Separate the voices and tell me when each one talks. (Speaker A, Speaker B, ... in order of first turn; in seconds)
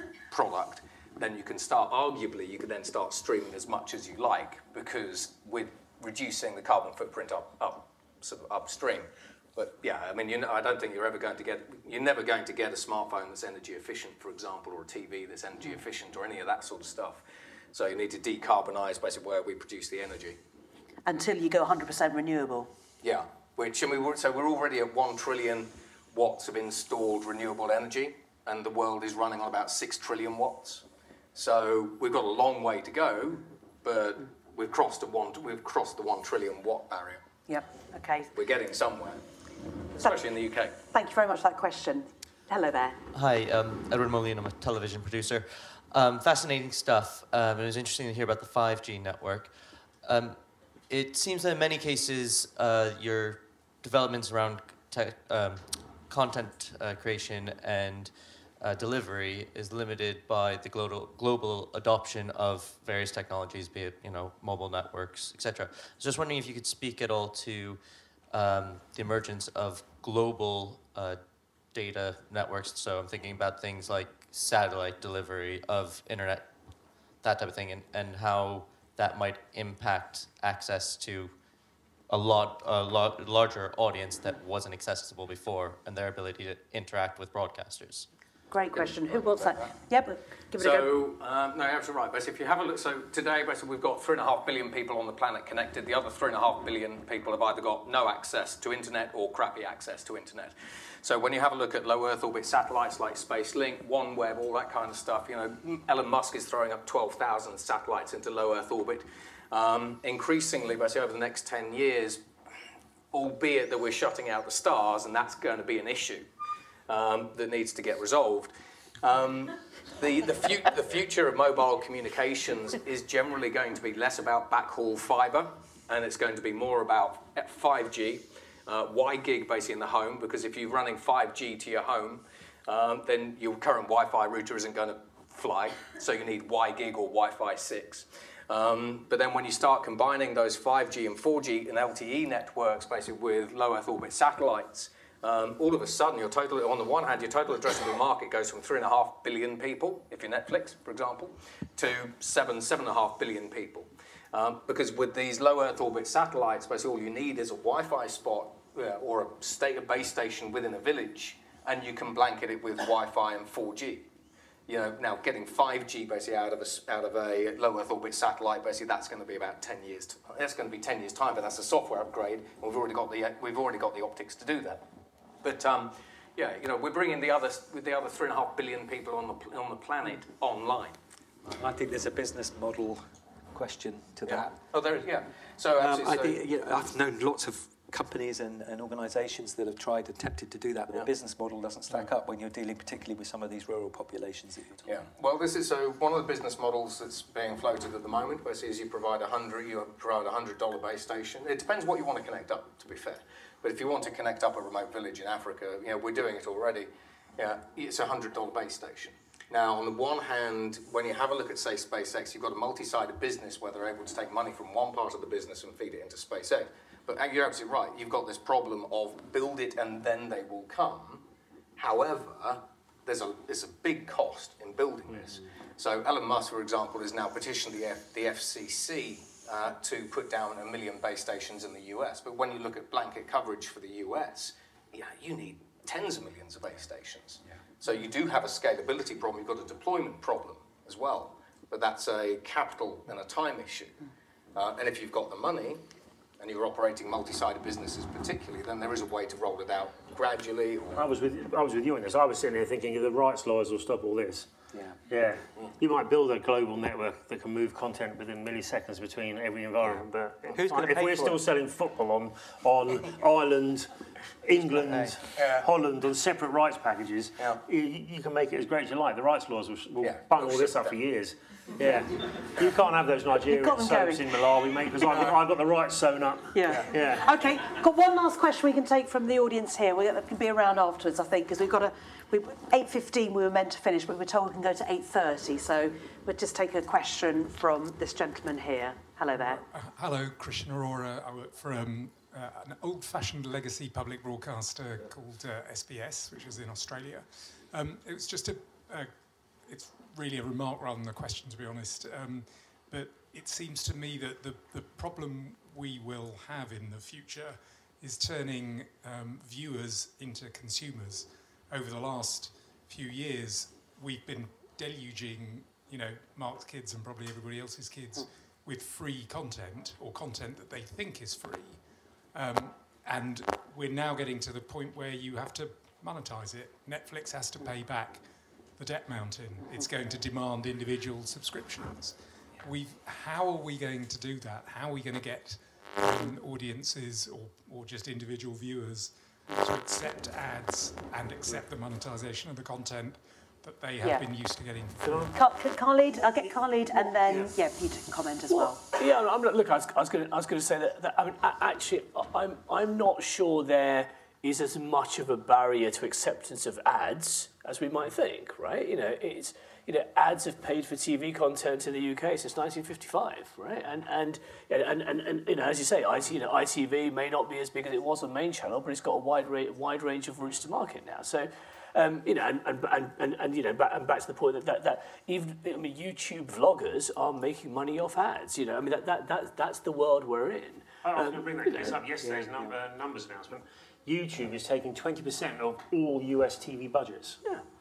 Speaker A: 0.3-20.4, 23.0-30.8, 31.3-37.2, 38.3-39.2, 39.9-40.8, 88.8-89.7, 90.6-112.2, 113.1-116.3, 116.9-164.1, 164.7-174.8, 175.4-181.0, 184.2-186.4, 194.8-221.2, 221.8-244.0, 244.5-245.8, 246.4-251.1, 265.3-265.7, 270.0-270.9, 275.1-275.4
Speaker B: 21.1-22.7, 37.5-38.3, 40.9-43.0, 88.5-90.9, 273.5-274.2, 276.5-289.6, 344.0-344.3, 345.3-348.8
Speaker C: 43.1-71.2, 71.7-76.5, 77.2-81.3, 82.1-88.1
Speaker D: 181.4-184.6, 185.8-195.0, 259.8-261.4
Speaker E: 250.9-254.5, 255.1-263.9, 264.4-277.3, 381.0-387.4
Speaker F: 289.4-345.4
Speaker G: 348.5-382.7